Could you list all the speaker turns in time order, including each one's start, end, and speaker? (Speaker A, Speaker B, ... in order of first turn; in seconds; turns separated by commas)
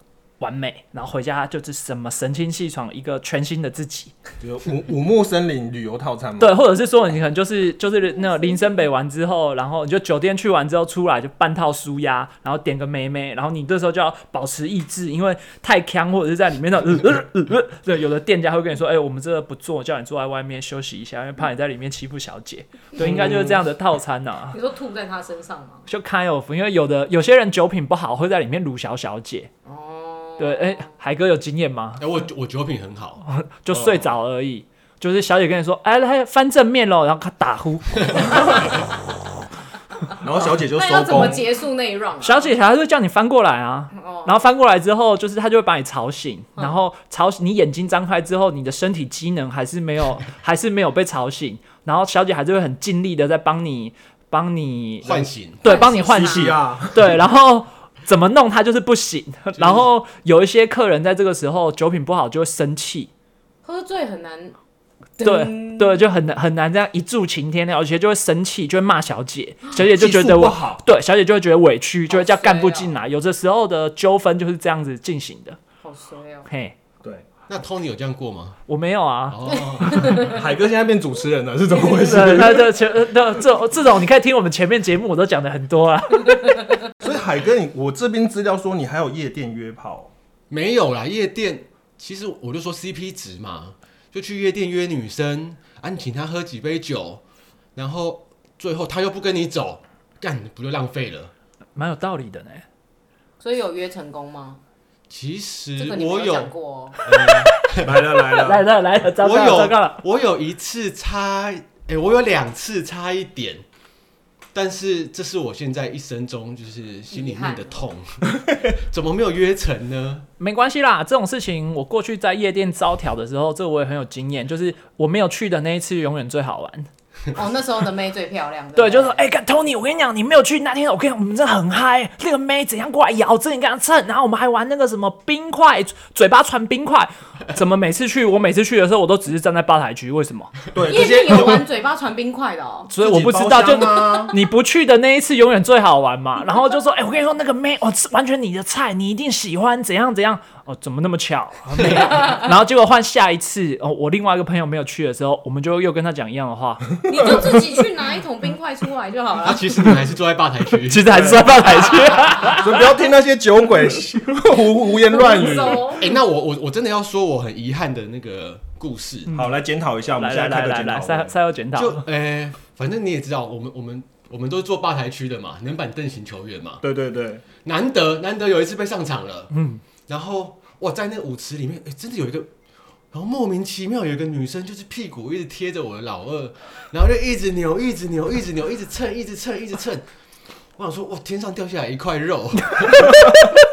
Speaker A: 0.4-4.1, Speaker B: 4.4-6.6, Speaker A: 6.4-24.6, Speaker B: 23.0-23.6, Speaker C: 24.5-25.9, Speaker A: 25.9-29.5, Speaker C: 29.6-30.9, Speaker A: 30.4-32.0, Speaker D: 32.0-33.2, Speaker A: 33.3-38.7, Speaker B: 33.7-34.1, Speaker B: 40.2-41.5, Speaker C: 40.7-42.5, Speaker A: 42.2-63.1, Speaker C: 43.9-44.4, Speaker D: 55.0-55.7, Speaker C: 55.6-56.5, Speaker B: 55.9-57.1, Speaker D: 59.6-59.8, Speaker C: 63.6-64.5, Speaker C: 65.2-66.0, Speaker A: 65.2-75.6, Speaker B: 69.7-70.8, Speaker C: 72.1-72.9, Speaker C: 75.8-76.5, Speaker A: 76.5-76.7, Speaker D: 77.5-78.6, Speaker A: 78.7-79.4, Speaker D: 79.3-80.3, Speaker C: 79.8-80.4, Speaker B: 80.0-82.7, Speaker A: 82.0-86.8, Speaker B: 87.0-90.1, Speaker D: 90.5-97.2, Speaker D: 97.8-101.3, Speaker A: 101.8-102.6, Speaker C: 103.4-104.6, Speaker D: 105.1-108.0, Speaker C: 105.8-107.0, Speaker B: 107.8-108.7, Speaker A: 108.3-110.0, Speaker D: 109.2-113.6, Speaker D: 114.5-120.3, Speaker C: 117.1-117.9, Speaker A: 120.4-126.9, Speaker C: 127.3-129.2, Speaker A: 128.8-140.5, Speaker B: 140.7-141.6, Speaker C: 140.9-142.9, Speaker A: 142.9-157.0, Speaker B: 143.0-144.3, Speaker D: 151.8-152.1, Speaker C: 157.1-159.6, Speaker D: 159.4-161.3, Speaker A: 160.9-162.7, Speaker B: 161.1-161.5, Speaker B: 162.4-165.9, Speaker C: 165.0-166.2, Speaker D: 166.0-169.3, Speaker B: 169.3-171.3, Speaker A: 170.1-172.0, Speaker D: 171.7-176.8, Speaker B: 176.8-177.4, Speaker D: 177.6-179.5, Speaker A: 179.5-179.8, Speaker D: 180.1-182.5, Speaker D: 183.1-190.0, Speaker D: 190.8-193.4